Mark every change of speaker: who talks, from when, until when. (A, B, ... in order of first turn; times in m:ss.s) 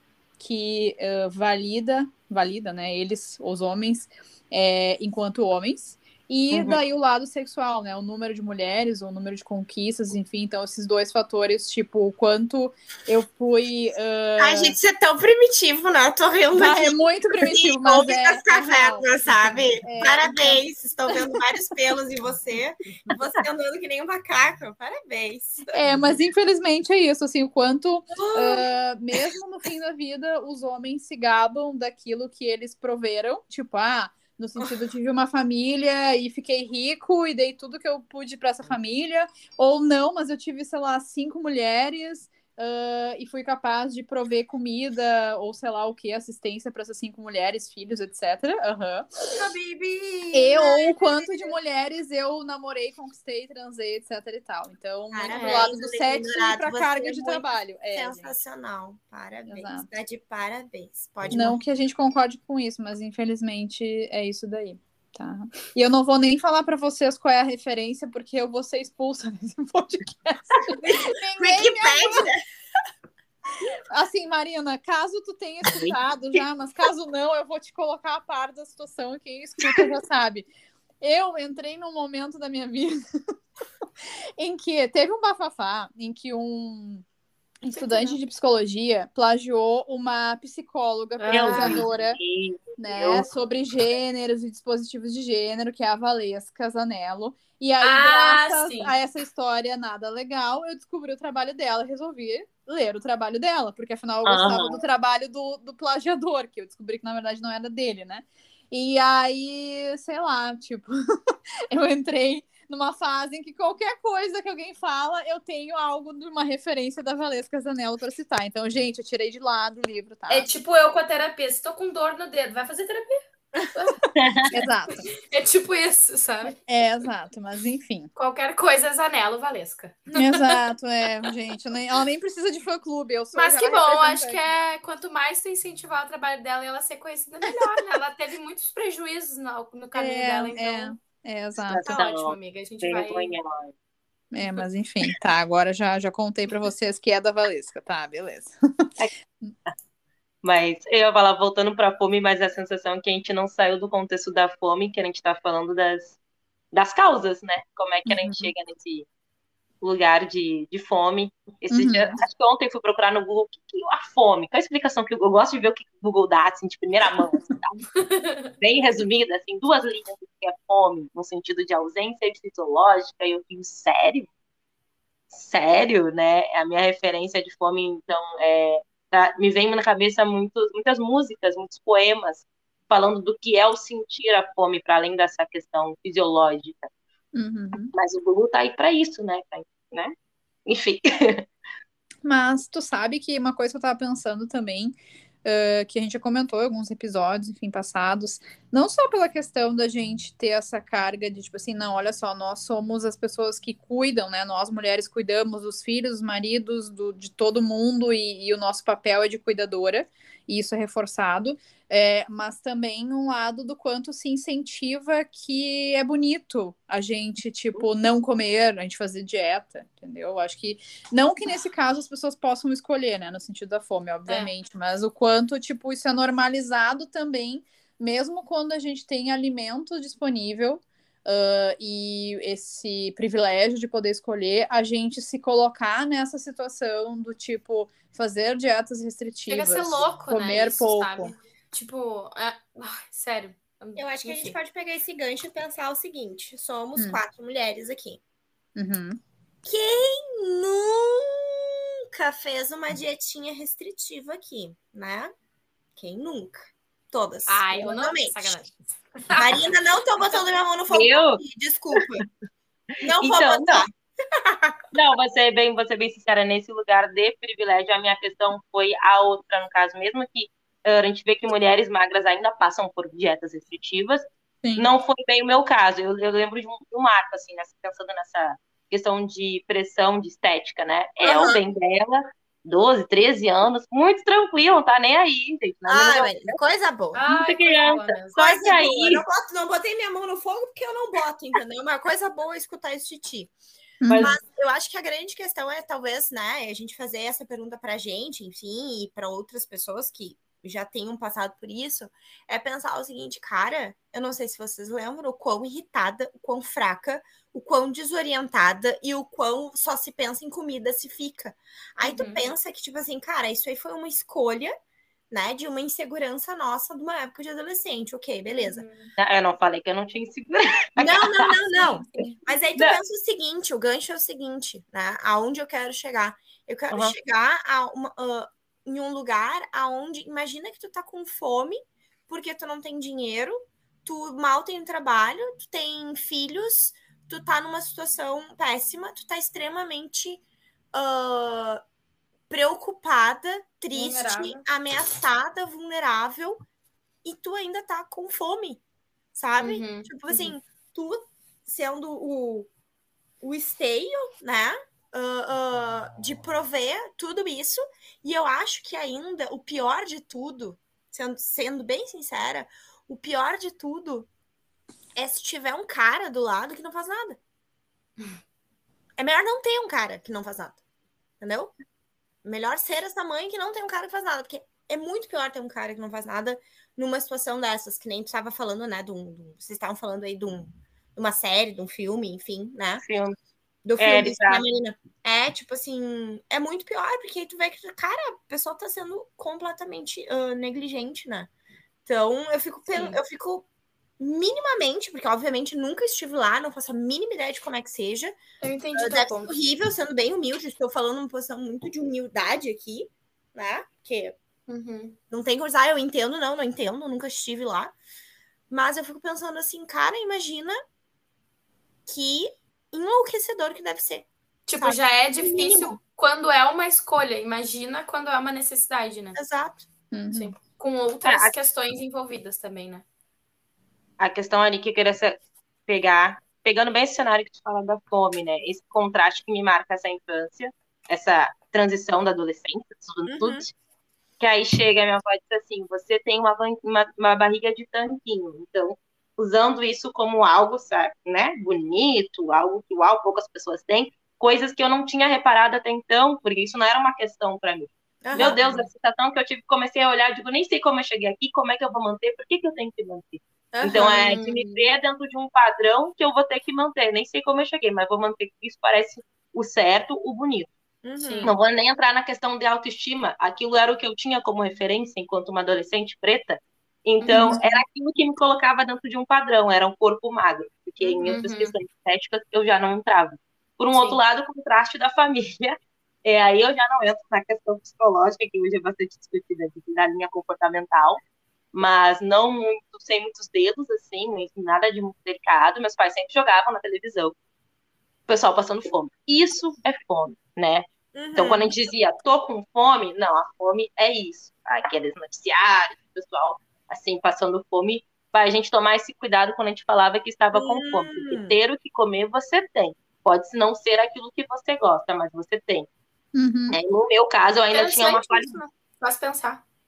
0:00.4-0:14.8 A
0:06.5-0:06.8 B
0:14.4-0:25.8 C
0:16.5-0:19.1 A
0:19.8-0:20.6 A
0:25.7-0:49.1 A
0:28.1-0:28.6 C
0:49.3-0:51.6 C
0:50.3-0:58.3 A
0:55.1-1:01.6 C
0:55.3-0:55.7 D
0:59.5-0:59.9 A
1:01.3-1:12.3 A
1:10.9-1:12.4 C
1:13.9-1:20.5 A
1:15.6-1:16.0 B
1:21.0-1:23.0 A
1:24.4-1:27.0 A
1:27.6-1:32.2 A
1:27.7-1:28.2 D
1:31.2-1:31.9 D
1:31.3-1:33.3 B
1:32.8-2:00.5 A
1:37.8-1:38.9 D
1:44.2-1:44.8 B
2:00.3-2:04.1 D
2:04.1-2:04.6 B
2:04.5-2:05.1 A
2:05.3-2:06.6 D
2:06.7-2:08.1 A
2:08.2-2:10.5 D
2:10.2-2:14.4 A
2:13.3-2:21.0 D
2:20.0-2:21.8 A
2:21.6-2:23.7 B
2:21.8-2:23.4 D
2:24.3-2:28.9 A
2:30.4-2:36.2 B
2:36.7-2:39.1 B
2:38.1-2:38.5 A
2:39.8-2:47.8 B
2:41.7-2:42.2 A
2:48.0-2:48.5 D
2:48.6-2:54.3 B
2:55.3-3:06.9 B
3:07.3-3:07.9 A
3:07.9-3:10.1 B
3:10.7-3:11.5 B
3:12.2-4:01.3 A
3:59.5-4:04.6 D
4:04.0-4:08.2 C
4:07.0-4:07.2 A
4:08.8-4:09.2 A
4:09.6-4:15.3 C
4:16.0-4:18.6 C
4:17.5-4:19.7 D
4:19.4-4:22.2 C
4:20.9-4:21.4 B
4:23.0-4:24.8 C
4:23.2-4:23.9 B
4:24.9-4:34.2 B
4:34.6-4:34.9 A
4:34.8-4:46.6 B
4:41.2-4:41.6 C
4:45.9-4:47.2 C
4:47.1-4:48.4 D
4:47.3-4:49.2 B
4:48.4-4:53.6 C
4:54.0-4:54.3 A
4:54.1-4:54.4 B
4:54.2-5:14.7 C
5:12.0-5:12.4 D
5:15.3-5:18.8 C
5:18.5-5:19.1 D
5:19.2-5:21.5 B
5:21.0-5:40.4 C
5:40.9-5:41.8 C
5:42.5-5:46.6 C
5:43.9-5:44.6 D
5:47.2-5:48.8 C
5:49.3-5:52.7 C
5:49.6-5:50.6 D
5:53.4-6:04.3 C
6:05.2-6:07.4 C
6:09.2-6:10.8 C
6:11.4-6:11.7 C
6:12.4-6:23.0 C
6:23.0-6:23.4 B
6:23.8-6:31.5 C
6:24.0-6:24.6 B
6:32.1-6:33.7 C
6:32.9-6:33.2 D
6:34.2-6:38.4 C
6:38.6-6:39.5 D
6:39.0-6:44.4 C
6:44.7-6:45.2 D
6:45.3-6:48.0 C
6:48.7-6:50.8 C
6:52.1-6:56.0 C
6:54.7-6:59.4 D
6:59.4-6:59.8 C
7:00.1-7:00.5 A
7:00.3-7:03.0 D
7:01.2-7:01.5 B
7:04.2-7:13.7 B
7:13.3-7:13.6 C
7:14.4-7:40.7 B
7:28.2-7:28.8 C
7:28.4-7:28.8 D
7:33.8-7:34.1 C
7:33.8-7:34.8 D
7:41.0-7:41.5 C
7:41.2-7:41.6 D
7:41.4-8:01.2 B
7:47.3-7:47.6 C
7:51.0-7:51.3 C
7:51.2-7:51.8 D
7:53.9-7:54.2 D
8:01.7-8:07.4 B
8:08.3-8:25.9 B
8:11.1-8:11.7 C
8:20.6-8:21.6 C
8:26.3-8:26.8 A
8:26.7-8:28.6 B
8:27.7-8:29.6 D